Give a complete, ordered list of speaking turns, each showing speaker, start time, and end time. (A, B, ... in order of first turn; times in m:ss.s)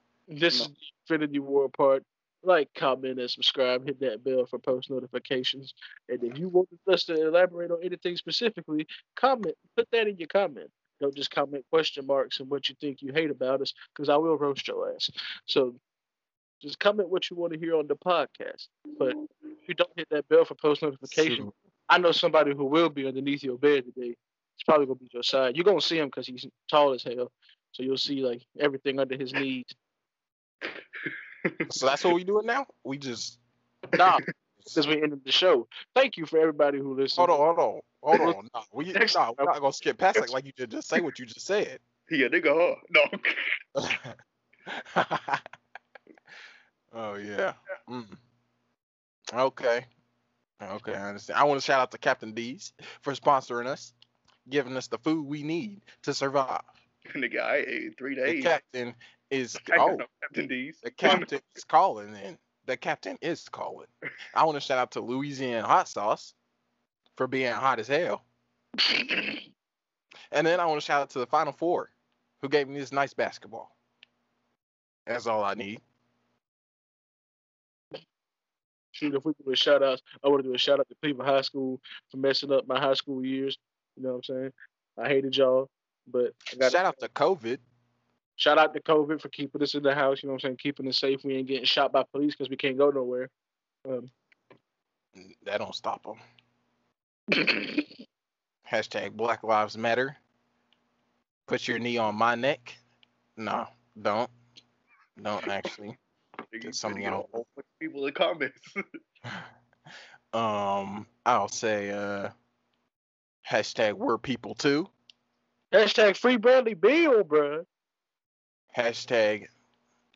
0:00.3-0:15.8 A
0:16.6-0:19.2 A
0:19.7-0:29.7 A
0:21.0-0:21.5 B
0:31.0-0:31.7 C
0:31.7-0:33.4 B
0:33.9-0:37.4 A
0:37.2-0:41.8 B
0:38.9-0:39.5 A
0:42.1-0:43.4 C
0:43.8-0:45.4 B
0:46.9-0:48.2 B
0:49.3-0:49.9 B
0:50.6-0:53.9 B
0:54.4-0:56.8 B
0:57.1-0:58.6 C
0:58.3-1:00.0 B
0:59.6-1:01.3 C
1:00.8-1:06.3 B
1:07.1-1:08.2 B
1:10.3-1:13.7 B
1:15.1-1:15.8 B
1:18.9-1:26.9 A
1:26.6-1:27.6 B
1:28.4-1:33.3 A
1:35.2-1:36.2 B
1:37.5-1:37.7 A
1:38.7-1:40.2 B
1:41.5-1:42.8 B
1:43.4-1:44.3 B
1:45.2-1:46.0 B
1:46.5-1:48.7 C
1:46.6-1:47.2 B
1:50.3-1:52.3 B
1:53.4-1:54.9 B
1:55.7-1:57.6 A
1:58.7-1:59.5 B